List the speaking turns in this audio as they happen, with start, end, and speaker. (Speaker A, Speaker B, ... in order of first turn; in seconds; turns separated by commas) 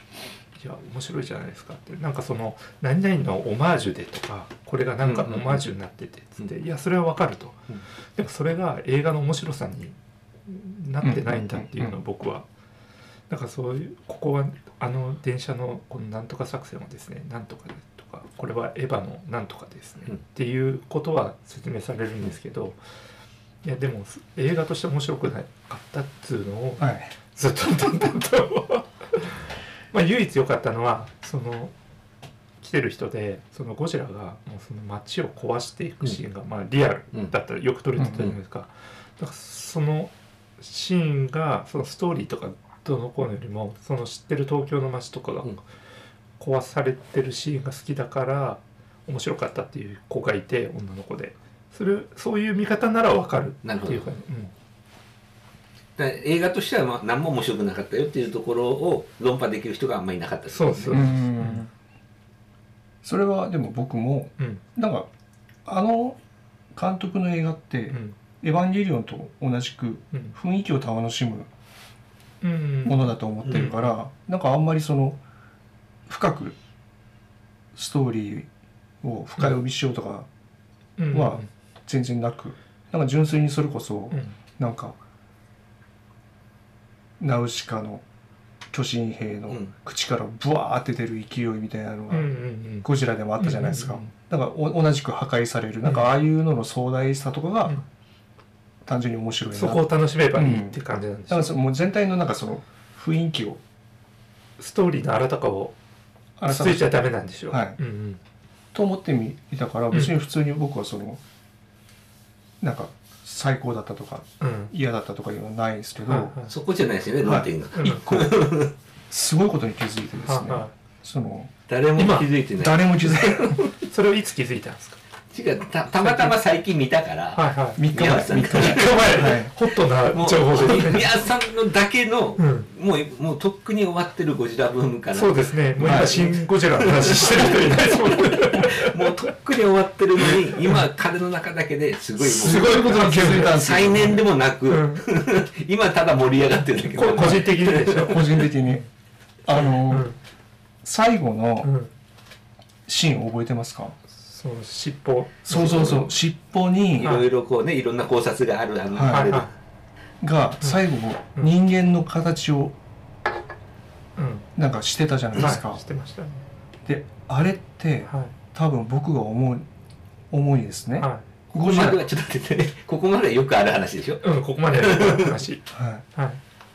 Speaker A: 0.6-7.6, Speaker B: 5.0-5.6, Speaker A: 8.2-12.4, Speaker C: 11.0-12.0, Speaker A: 13.3-22.8, Speaker A: 23.6-29.4, Speaker C: 26.8-27.1, Speaker A: 29.9-31.7, Speaker A: 32.6-45.6, Speaker C: 38.0-38.3, Speaker A: 46.4-54.5, Speaker B: 53.6-54.2, Speaker B: 56.0-61.1, Speaker A: 60.5-61.7, Speaker C: 60.9-61.7, Speaker C: 63.0-65.1, Speaker C: 65.6-66.2, Speaker C: 66.7-71.5, Speaker A: 67.9-68.2, Speaker A: 72.4-74.0, Speaker C: 72.8-75.2, Speaker C: 76.1-76.6, Speaker C: 77.7-78.5, Speaker C: 79.0-80.3, Speaker A: 81.0-81.5, Speaker C: 81.1-85.0, Speaker C: 87.2-88.0, Speaker C: 88.7-92.3, Speaker A: 92.1-94.1, Speaker C: 92.8-97.8, Speaker A: 95.8-96.1, Speaker C: 98.8-103.6, Speaker A: 99.5-101.5, Speaker A: 104.6-105.7, Speaker C: 106.4-107.8, Speaker A: 106.5-108.2, Speaker C: 108.7-111.2, Speaker C: 112.6-116.3, Speaker A: 114.4-114.7, Speaker A: 116.1-116.5, Speaker B: 116.5-118.7, Speaker C: 117.2-118.3, Speaker A: 117.8-118.3, Speaker C: 119.1-121.5, Speaker A: 120.2-120.7, Speaker B: 121.7-123.7, Speaker A: 122.0-122.3, Speaker C: 122.6-123.6, Speaker A: 123.6-125.0, Speaker B: 125.3-129.4, Speaker A: 125.9-126.4, Speaker A: 127.3-127.8, Speaker C: 127.8-129.5, Speaker A: 128.4-131.2, Speaker B: 130.1-148.1, Speaker A: 132.4-132.7, Speaker A: 135.1-139.3, Speaker C: 135.8-136.3, Speaker A: 140.6-140.8, Speaker A: 142.2-143.7, Speaker C: 142.2-144.2, Speaker A: 144.7-145.1, Speaker A: 146.8-148.9, Speaker C: 148.0-148.8, Speaker C: 149.4-150.1, Speaker A: 149.5-150.2, Speaker C: 150.8-151.7, Speaker A: 151.6-151.9, Speaker C: 152.9-153.9, Speaker A: 154.1-156.2, Speaker C: 155.4-157.1, Speaker B: 157.0-159.5, Speaker A: 157.0-157.3, Speaker C: 158.9-159.4, Speaker A: 159.1-159.5, Speaker C: 160.2-162.8, Speaker A: 164.2-164.5, Speaker C: 164.6-165.8, Speaker A: 165.3-166.4, Speaker C: 166.9-169.7, Speaker A: 168.1-168.3, Speaker C: 170.3-172.1, Speaker A: 171.0-171.2, Speaker B: 171.5-174.2, Speaker A: 174.2-176.4, Speaker B: 174.8-175.4, Speaker C: 175.7-176.0